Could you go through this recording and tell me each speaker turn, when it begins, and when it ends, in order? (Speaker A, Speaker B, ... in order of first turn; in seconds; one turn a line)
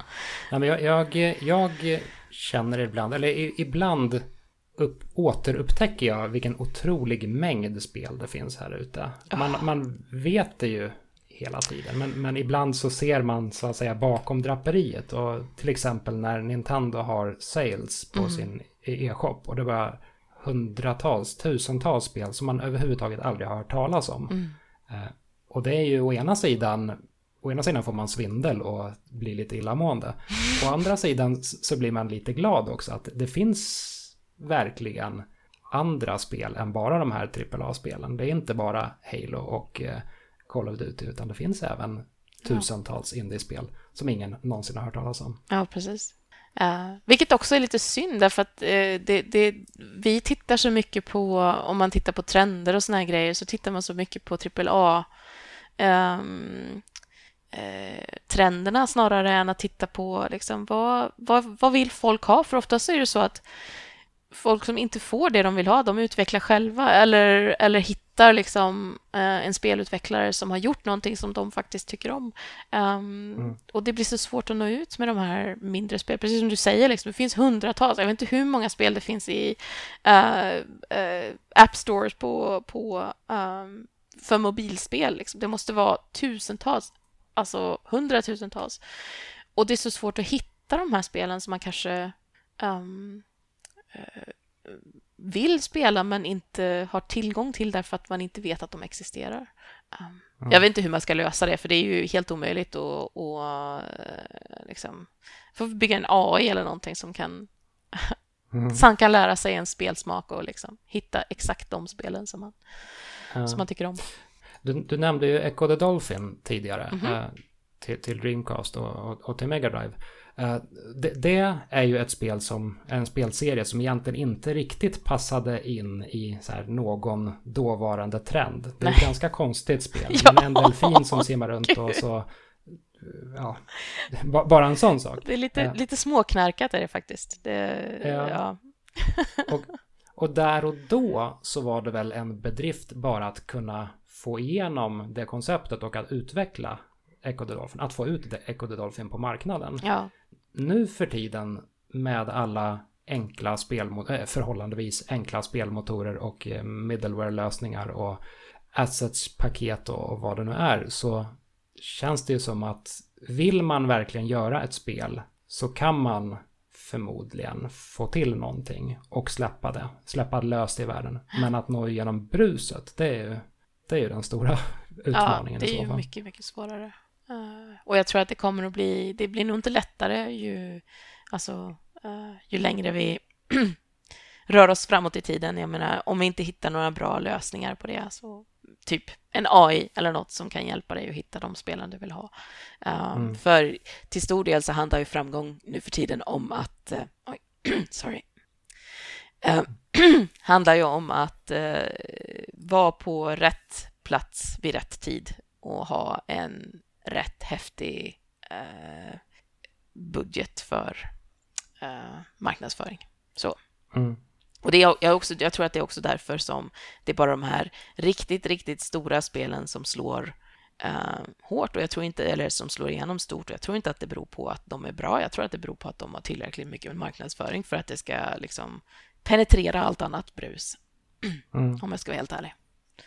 Speaker A: 0.5-24.4
Speaker B: 18.1-18.4
Speaker B: 24.3-24.6
Speaker A: 24.9-45.4
Speaker B: 45.5-55.1
Speaker B: 55.8-56.8
Speaker B: 57.5-93.2
Speaker B: 93.9-108.2
Speaker A: 100.4-100.6
Speaker A: 108.5-108.8
Speaker B: 108.7-114.0
Speaker A: 113.3-113.6
Speaker A: 114.6-135.8
Speaker B: 116.9-117.2
Speaker B: 130.0-132.0
Speaker B: 135.2-139.5
Speaker A: 138.0-138.4
Speaker A: 139.5-149.8
Speaker B: 149.8-150.1
Speaker A: 150.5-158.2
Speaker A: 158.7-176.0
Speaker B: 175.1-183.8
Speaker B: 184.5-192.3
Speaker B: 192.8-198.2
Speaker A: 193.1-193.4
Speaker B: 199.4-209.2
Speaker B: 209.9-211.1
Speaker B: 211.8-213.5
Speaker A: 213.9-214.2
Speaker B: 214.6-232.5
Speaker A: 231.5-231.8